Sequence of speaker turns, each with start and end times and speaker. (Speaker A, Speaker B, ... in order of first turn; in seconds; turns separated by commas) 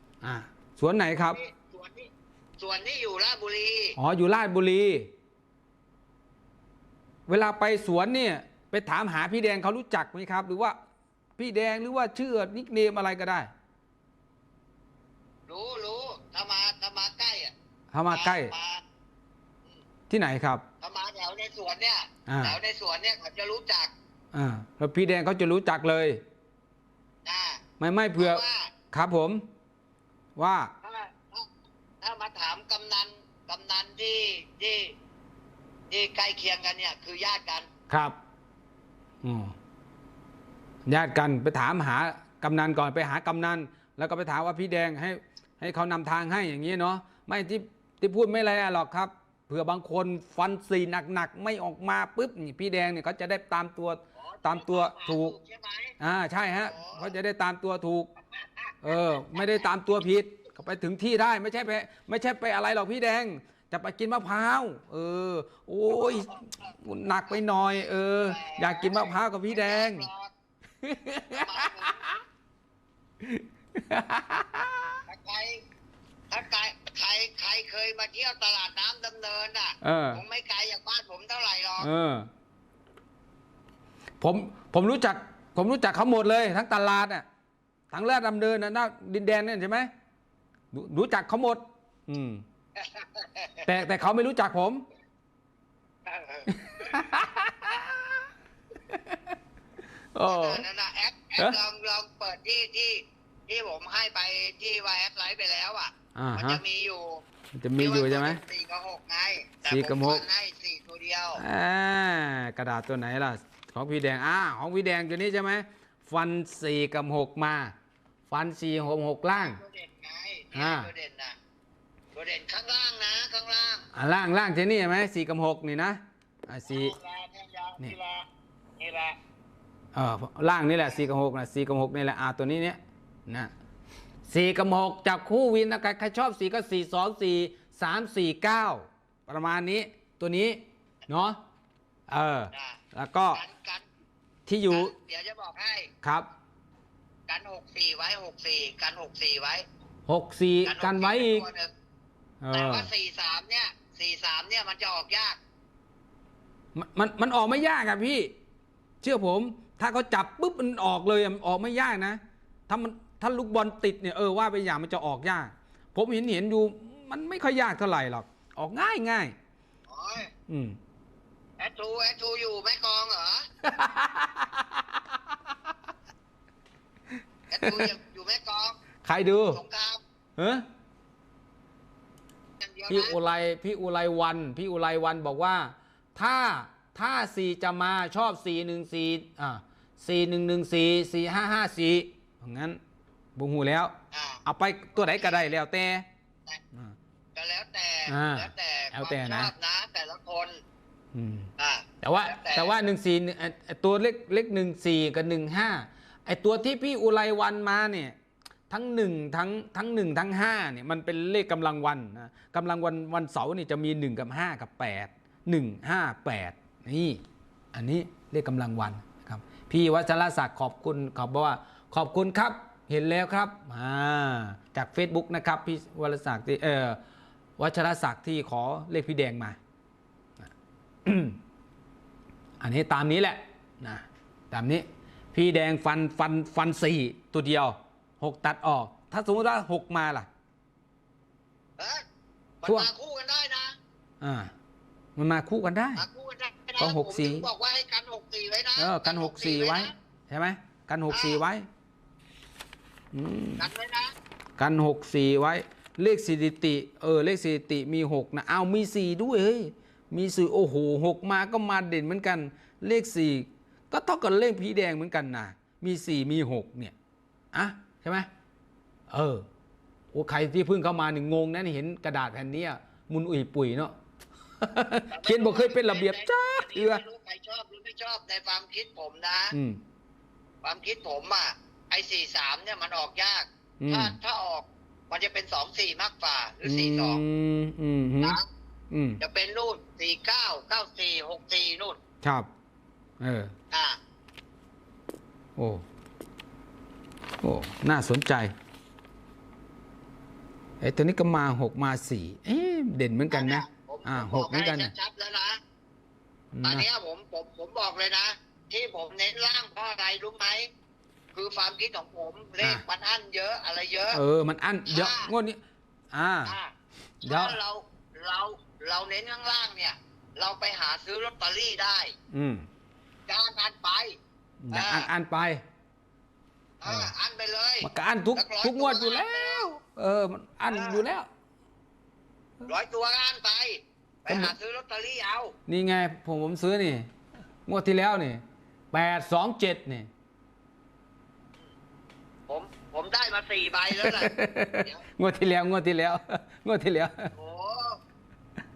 Speaker A: 0.2-1.4, Speaker B: 1.3-4.0, Speaker A: 4.0-5.1, Speaker A: 7.3-10.8, Speaker A: 11.4-13.5, Speaker B: 15.5-17.5, Speaker A: 17.9-18.5, Speaker B: 18.1-18.8, Speaker A: 20.1-20.6, Speaker B: 20.8-23.9, Speaker A: 22.3-22.6, Speaker A: 24.3-26.2, Speaker B: 27.2-27.6, Speaker A: 27.8-29.4, Speaker B: 28.2-28.7, Speaker A: 30.4-30.7, Speaker B: 30.8-31.4, Speaker B: 32.0-34.9, Speaker B: 35.9-37.7, Speaker A: 37.9-38.1, Speaker A: 39.2-39.5, Speaker A: 40.9-55.3, Speaker B: 54.2-56.0, Speaker A: 56.0-58.1, Speaker B: 56.6-57.1, Speaker B: 58.4-59.4, Speaker A: 58.8-70.0, Speaker B: 65.9-66.3, Speaker B: 68.2-70.3, Speaker A: 70.8-72.1, Speaker B: 71.3-72.0, Speaker A: 73.2-75.0, Speaker B: 75.1-75.6, Speaker B: 76.3-81.9, Speaker A: 79.8-80.2, Speaker A: 81.8-82.3, Speaker A: 84.2-87.2, Speaker A: 87.9-89.9, Speaker A: 90.7-92.4, Speaker B: 92.8-93.6, Speaker A: 93.6-94.8, Speaker B: 96.1-96.9, Speaker A: 96.5-98.2, Speaker A: 98.9-99.2, Speaker A: 100.1-100.6, Speaker B: 100.2-107.2, Speaker A: 106.1-106.6, Speaker A: 107.5-108.4, Speaker B: 107.8-111.4, Speaker A: 109.7-110.2, Speaker A: 111.4-117.7, Speaker A: 118.3-119.6, Speaker B: 119.3-121.3, Speaker A: 120.5-120.9, Speaker B: 122.1-123.9, Speaker A: 123.9-126.9, Speaker B: 126.7-128.2, Speaker B: 128.8-129.2, Speaker A: 129.9-133.5, Speaker A: 134.3-141.4, Speaker A: 142.1-143.4, Speaker B: 142.5-142.8, Speaker B: 143.3-143.8, Speaker A: 144.5-144.9, Speaker B: 144.7-145.9, Speaker B: 147.3-149.6, Speaker A: 150.1-151.4, Speaker B: 150.6-151.7, Speaker A: 152.4-152.9, Speaker B: 152.5-155.4, Speaker A: 156.7-158.3, Speaker A: 159.0-169.3, Speaker B: 169.9-170.3, Speaker A: 170.5-170.8, Speaker B: 171.6-173.4, Speaker A: 173.7-174.8, Speaker B: 177.5-178.8, Speaker A: 177.6-177.9, Speaker A: 179.0-179.6, Speaker B: 179.5-180.0, Speaker A: 180.4-180.6, Speaker B: 182.6-183.2, Speaker A: 182.9-192.8, Speaker A: 193.3-193.9, Speaker B: 194.1-194.4, Speaker A: 194.4-196.0, Speaker B: 195.0-195.4, Speaker B: 197.3-200.6, Speaker A: 198.1-199.5, Speaker A: 201.1-201.5, Speaker B: 201.6-202.7, Speaker A: 202.0-208.2, Speaker A: 208.7-217.2, Speaker A: 217.7-227.0, Speaker A: 227.6-229.6, Speaker A: 231.0-231.4, Speaker A: 232.6-240.3, Speaker B: 242.6-243.8, Speaker A: 244.2-244.5, Speaker A: 245.2-246.0, Speaker B: 245.9-249.9, Speaker A: 246.8-247.5, Speaker A: 248.8-251.7, Speaker B: 251.1-251.4, Speaker A: 253.1-253.7, Speaker B: 253.6-254.1, Speaker A: 254.6-266.9, Speaker A: 267.5-268.3, Speaker A: 269.1-269.4, Speaker A: 270.1-273.9, Speaker A: 274.6-277.0, Speaker B: 275.1-279.5, Speaker A: 279.5-279.8, Speaker B: 280.6-287.2, Speaker A: 283.8-284.1, Speaker A: 286.6-288.4, Speaker A: 288.9-289.2, Speaker B: 289.2-292.0, Speaker A: 293.2-293.5, Speaker B: 293.7-294.0, Speaker A: 295.6-295.8, Speaker A: 297.4-298.5, Speaker A: 300.8-304.9, Speaker B: 303.3-305.6, Speaker A: 306.5-306.9, Speaker B: 306.6-310.7, Speaker B: 311.3-314.2, Speaker A: 314.1-315.6, Speaker B: 314.9-315.3, Speaker A: 316.1-316.5, Speaker B: 316.4-322.1, Speaker A: 317.2-317.6, Speaker A: 322.3-322.6, Speaker B: 323.3-324.2, Speaker A: 324.6-325.6, Speaker B: 324.7-325.1, Speaker B: 326.8-329.6, Speaker A: 326.8-327.1, Speaker A: 327.8-331.3, Speaker B: 330.7-331.0, Speaker B: 332.6-335.5, Speaker A: 334.3-334.5, Speaker A: 335.7-337.1, Speaker A: 337.7-340.1, Speaker B: 342.5-344.3, Speaker A: 343.9-347.3, Speaker B: 347.3-348.0